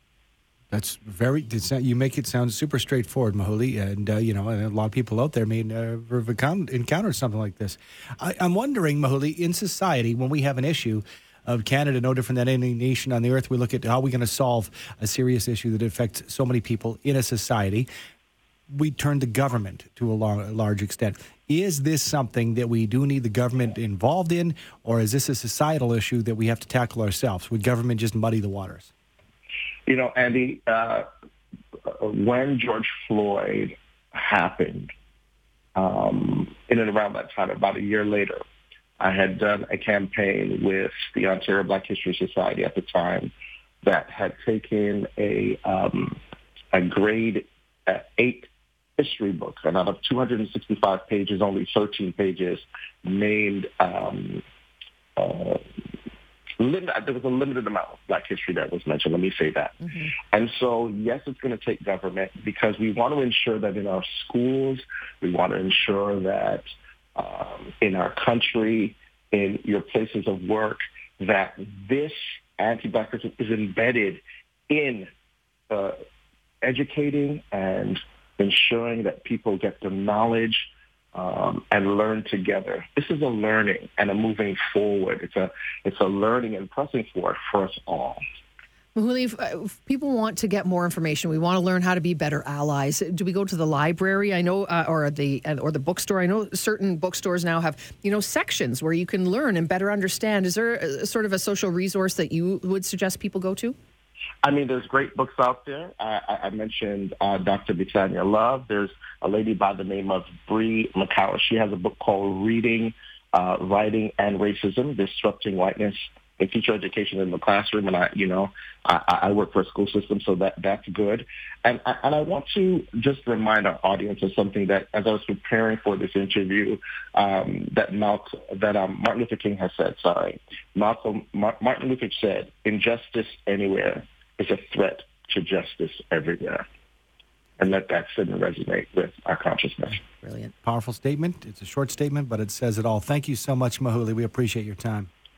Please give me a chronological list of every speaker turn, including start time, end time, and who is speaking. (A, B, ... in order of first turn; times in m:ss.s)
0:00.7-0:17.9 A
0:18.7-0:28.9 A
0:29.9-0:31.0 B
0:31.9-0:34.9 B
0:35.8-0:38.4 B
0:39.0-0:46.2 B
0:46.7-0:54.4 B
0:55.2-0:55.6 B
0:56.6-0:59.8 B
1:00.3-1:15.1 B
1:15.7-1:16.0 B
1:16.6-1:28.2 B
1:29.0-1:43.8 C
1:44.4-2:16.6 B
2:17.6-2:20.0 B
2:20.2-2:20.5 C
2:20.6-2:25.1 A